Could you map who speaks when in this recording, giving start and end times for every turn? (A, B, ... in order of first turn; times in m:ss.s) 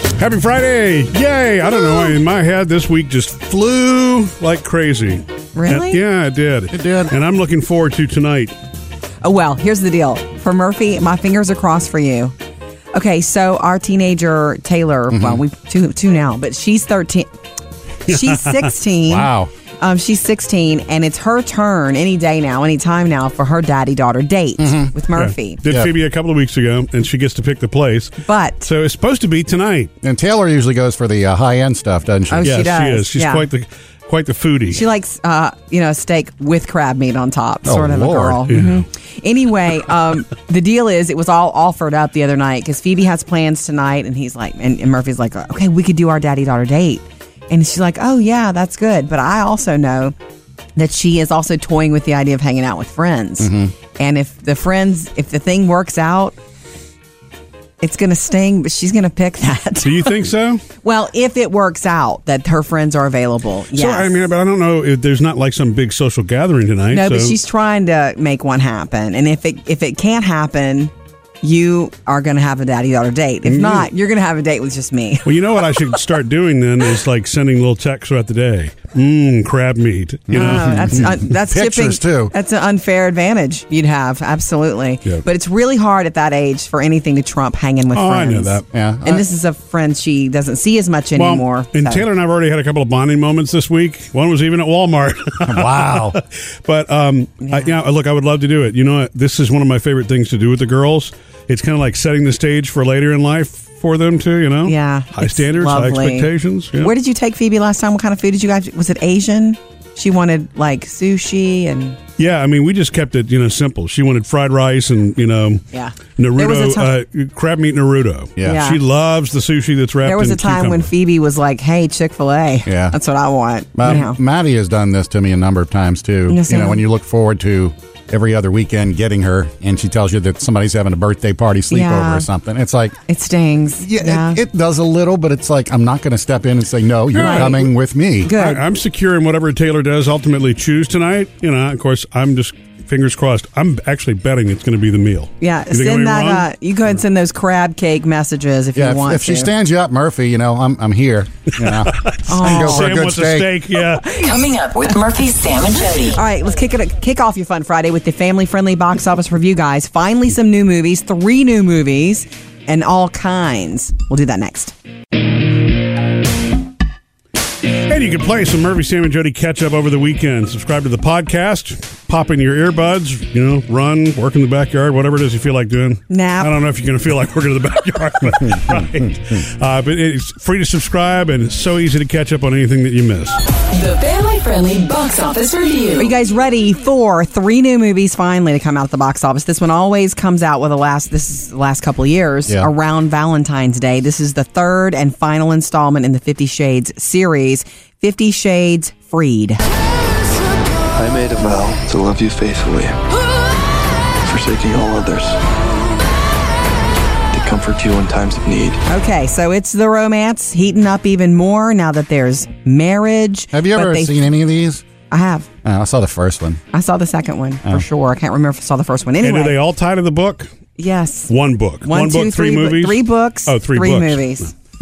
0:00.2-0:08.5 A
0:05.5-0:06.0 B
0:06.7-0:07.1 C
0:09.2-0:12.3 B
0:12.9-0:17.3 B
0:15.1-0:15.4 C
0:18.1-0:25.6 B
0:18.1-0:18.7 A
0:19.1-0:19.5 C
0:24.6-0:24.9 C
0:25.2-0:29.9 A
0:28.2-0:28.7 B
0:30.0-0:32.5 C
0:32.3-0:33.4 B
0:32.4-0:34.8 A
0:34.7-0:50.1 B
0:37.6-0:38.4 C
0:38.5-0:38.8 A
0:50.8-0:56.3 B
0:53.4-0:53.7 C
0:57.8-1:00.1 B
0:59.8-1:00.6 A
1:00.8-1:04.1 B
1:03.7-1:07.4 A
1:06.9-1:15.2 B
1:13.4-1:13.9 A
1:15.2-1:21.0 A
1:20.3-1:22.3 C
1:20.3-1:32.0 B
1:27.9-1:28.6 A
1:28.7-1:29.2 C
1:31.2-1:46.9 A
1:35.4-1:36.2 C
1:37.4-1:37.8 B
1:44.6-1:46.3 B
1:46.8-1:52.0 B
1:52.2-1:55.6 A
1:55.7-1:56.9 B
1:56.2-2:00.9 A
1:58.4-1:58.7 C
1:58.4-1:58.8 B
2:00.0-2:04.2 B
2:02.6-2:03.0 C
2:03.7-2:13.0 C
2:06.3-2:06.8 B
2:11.7-2:12.3 B
2:13.1-2:14.4 B
2:13.8-2:18.3 C
2:17.2-2:17.7 B
2:17.2-2:17.6 A
2:18.2-2:18.6 B
2:18.3-2:26.4 A
2:25.4-2:29.5 B
2:28.8-2:33.5 C
2:31.7-2:34.1 A
2:32.3-2:33.0 B
2:34.0-2:34.3 B
2:34.1-2:36.2 D
2:36.1-2:44.7 B
2:47.9-3:03.4 A
2:56.1-2:56.5 B
3:03.7-3:06.1 D
3:06.0-3:19.6 B
3:20.9-3:23.0 E
3:24.2-3:25.4 E
3:27.3-3:28.8 E
3:28.9-3:34.2 B
3:33.5-3:34.8 C
3:35.1-3:35.5 B
3:35.6-3:36.6 C
3:36.7-3:39.6 B
3:39.2-3:40.5 A
3:40.8-3:41.3 B
3:41.3-3:44.3 A
3:41.8-3:44.5 B